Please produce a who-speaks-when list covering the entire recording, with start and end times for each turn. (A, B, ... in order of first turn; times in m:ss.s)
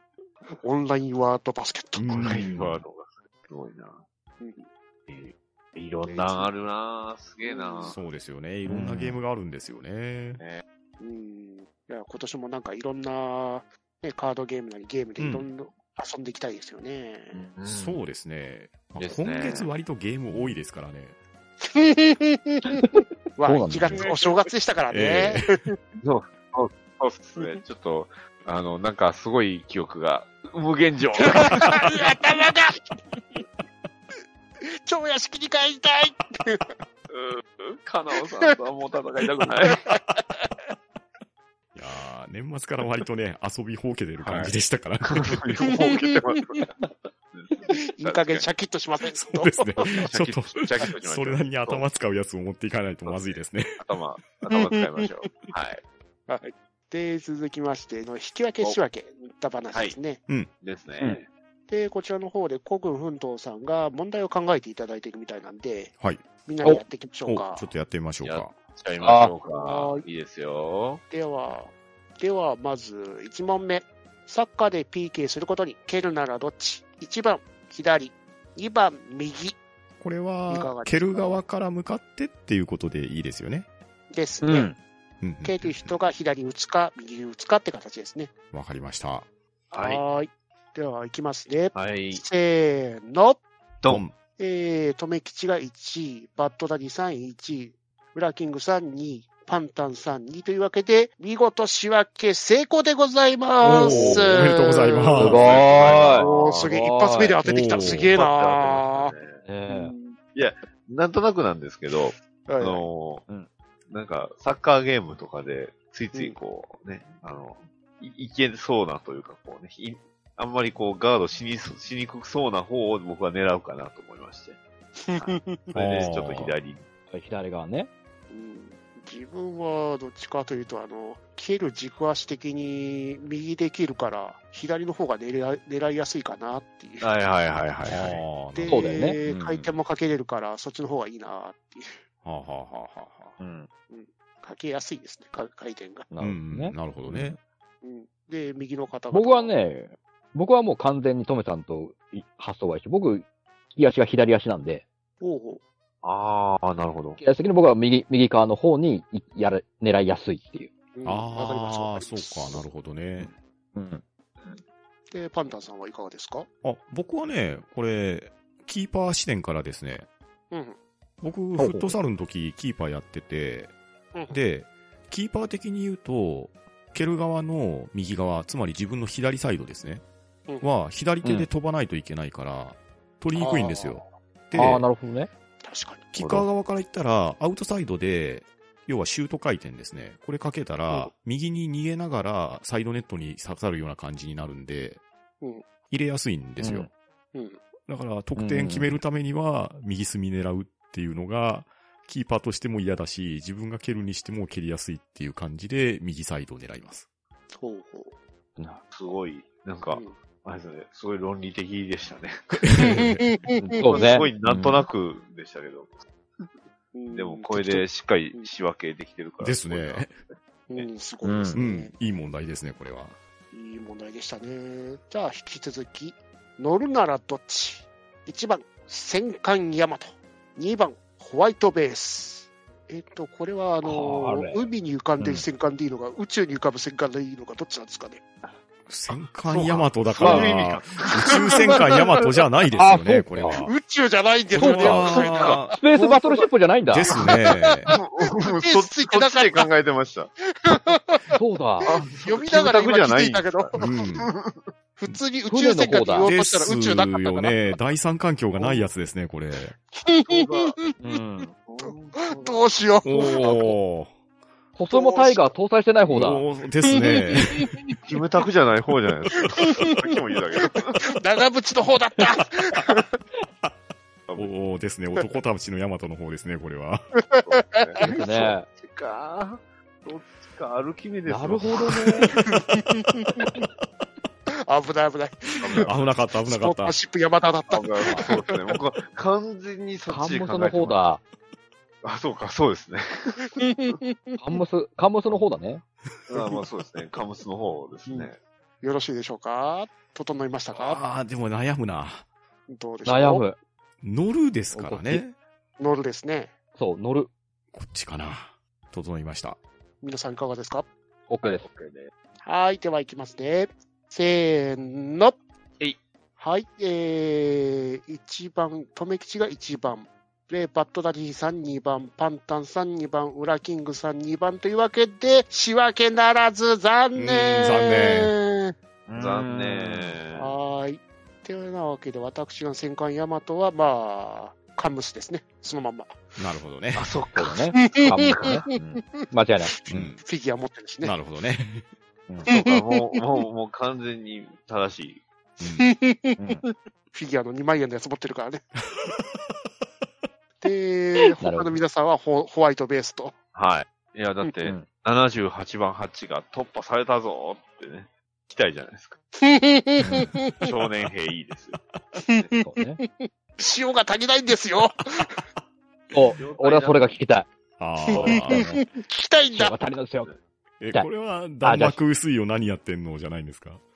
0:00.5-0:02.4 A
0:02.0-0:02.8 B
0:02.1-0:04.0 C
0:04.4-0:04.7 A
0:05.1-0:08.0 C
0:06.0-0:06.5 A
0:07.4-0:08.0 A
0:07.8-0:10.4 B
0:08.7-0:09.1 D
0:11.0-0:17.5 A
0:15.2-0:15.5 B
0:17.3-0:18.0 C
0:17.6-0:21.2 B
0:19.0-0:19.7 C
0:21.6-0:25.8 A
0:23.4-0:24.0 D
0:24.0-0:24.3 C
0:24.9-0:25.6 B
0:26.0-0:31.8 C
0:31.2-0:33.4 A
0:34.7-0:36.8 A
0:37.1-0:39.8 C
0:39.4-0:40.4 A
0:41.7-0:45.5 B
0:44.2-0:48.5 C
0:45.7-0:46.6 A
0:47.7-0:49.7 A
0:49.1-0:53.8 B
0:49.8-0:51.9 C
0:53.0-0:55.8 C
0:54.5-0:55.0 A
0:56.3-1:00.2 A
0:59.7-1:00.0 C
1:00.6-1:01.3 C
1:01.7-1:05.9 A
1:06.4-1:07.7 A
1:07.2-1:08.5 B
1:08.2-1:11.0 C
1:09.0-1:09.3 D
1:09.5-1:10.0 A
1:11.1-1:19.6 A
1:20.0-1:23.7 B
1:20.5-1:21.4 A
1:24.1-1:24.8 A
1:24.4-1:24.8 D
1:25.2-1:26.0 B
1:25.4-1:28.3 A
1:28.5-1:29.3 B
1:29.7-1:30.0 C
1:29.8-1:33.4 A
1:31.7-1:32.2 C
1:33.9-1:34.2 B
1:34.4-1:49.1 A
1:43.6-1:44.3 D
1:43.6-1:46.1 B
1:45.2-1:47.4 D
1:45.3-1:46.7 C
1:47.4-1:48.1 B
1:47.8-1:49.4 C
1:49.4-1:49.9 D
1:49.7-1:50.2 A
1:50.3-1:53.3 C
1:52.5-1:52.8 A
1:53.9-2:04.6 C
2:05.0-2:05.7 A
2:05.1-2:06.8 C
2:05.7-2:06.6 B
2:07.1-2:07.9 D
2:08.3-2:17.1 A
2:17.0-2:18.2 C
2:17.8-2:19.0 B
2:18.5-2:22.0 A
2:18.7-2:19.7 D
2:22.2-2:23.3 B
2:23.9-2:26.1 A
2:26.1-2:27.4 D
2:26.2-2:27.4 B
2:27.8-2:29.5 A
2:29.1-2:34.8 D
2:35.2-2:35.6 A
2:36.0-2:37.2 C
2:37.2-2:40.7 D
2:40.9-2:42.6 A
2:41.0-2:43.3 B
2:43.2-2:44.6 D
2:45.1-2:46.5 A
2:46.6-2:50.1 B
2:50.5-2:50.8 A
2:51.2-2:53.7 B
2:51.6-2:52.0 D
2:54.1-2:54.4 A
2:54.3-3:00.0 B
3:00.6-3:04.8 B
3:01.2-3:01.5 D
3:03.3-3:04.0 A
3:04.5-3:05.3 D
3:05.6-3:06.1 A
3:06.1-3:15.0 B
3:15.4-3:15.7 A
3:15.9-3:16.9 B
3:16.6-3:16.9 D
3:17.3-3:17.6 A
3:17.8-3:27.0 B
3:18.4-3:18.9 D
3:27.5-3:28.1 A
3:28.6-3:28.8 D
3:28.9-3:33.0 C
3:32.6-3:33.2 B
3:32.8-3:34.2 A
3:33.6-3:34.8 D
3:33.8-3:36.5 C
3:36.9-3:38.5 A
3:37.1-3:40.2 C
3:39.4-3:40.1 B
3:40.7-3:41.9 A
3:41.2-3:41.6 D
3:41.5-3:43.2 B
3:43.5-3:58.2 A
3:53.8-3:54.6 D
3:55.2-3:55.4 D
3:58.9-4:03.7 B
3:59.5-4:01.7 C
4:00.2-4:00.5 D
4:01.3-4:01.7 A
4:02.7-4:03.6 D
4:03.6-4:05.8 A
4:04.5-4:05.8 B
4:04.6-4:05.1 D
4:05.0-4:06.4 C
4:05.8-4:07.1 D
4:06.9-4:07.9 B
4:07.2-4:09.6 A
4:07.9-4:10.3 C
4:10.5-4:14.3 A
4:11.3-4:11.9 D
4:11.8-4:14.5 C
4:13.8-4:14.3 B
4:15.0-4:17.6 A
4:15.5-4:16.3 D
4:16.2-4:19.7 B
4:18.6-4:18.8 C
4:19.9-4:21.0 A
4:20.3-4:20.8 C
4:21.0-4:21.5 D
4:21.6-4:22.6 C
4:21.8-4:23.6 A
4:23.0-4:24.1 B
4:23.4-4:23.6 D
4:24.8-4:26.4 D
4:24.9-4:25.5 A
4:26.1-4:27.7 B
4:26.9-4:28.0 A
4:28.0-4:31.0 C
4:29.5-4:30.0 A
4:30.6-4:33.2 A
4:34.3-4:34.5 C
4:34.4-4:37.1 B
4:37.3-4:38.5 A
4:37.4-4:42.2 C
4:38.0-4:38.6 D
4:41.2-4:42.3 D
4:42.0-4:43.6 A
4:44.6-4:45.9 A
4:45.6-4:46.0 C
4:45.8-4:47.0 B
4:46.4-4:48.5 A
4:47.7-4:51.0 C
4:50.1-4:51.2 D
4:52.0-4:53.6 C
4:53.6-4:54.4 A
4:54.4-4:55.8 D
4:56.3-4:58.4 C
4:58.8-5:01.0 A
5:00.7-5:02.2 B
5:02.7-5:03.4 A
5:03.0-5:03.6 D
5:04.0-5:05.3 B
5:04.7-5:05.2 D
5:05.8-5:06.5 A
5:06.8-5:07.3 D
5:07.7-5:09.6 B
5:10.0-5:10.9 A
5:11.3-5:11.6 D
5:11.4-5:12.1 C
5:12.4-5:15.4 A
5:16.4-5:28.7 A
5:27.2-5:28.3 B
5:29.1-5:30.2 D
5:29.1-5:30.6 C
5:30.3-5:36.2 A
5:36.4-5:37.1 B
5:36.9-5:38.8 C
5:37.4-5:40.1 D
5:37.9-5:39.1 A
5:39.6-5:41.2 A
5:39.9-5:40.2 B
5:41.0-5:41.9 B
5:42.4-5:45.2 C
5:42.5-5:43.2 A
5:45.6-5:45.9 B
5:45.6-5:48.7 A
5:46.4-5:46.6 D
5:50.6-5:53.3 A
5:51.4-5:51.8 D
5:53.5-5:59.2 C
5:59.4-6:00.7 A
6:00.6-6:01.8 C
6:02.2-6:05.4 A
6:02.6-6:03.0 D
6:06.1-6:07.5 D
6:06.4-6:07.2 C
6:07.8-6:08.8 B
6:08.1-6:09.7 A
6:08.1-6:08.8 D
6:09.5-6:10.3 D
6:10.8-6:13.8 B
6:11.6-6:12.0 D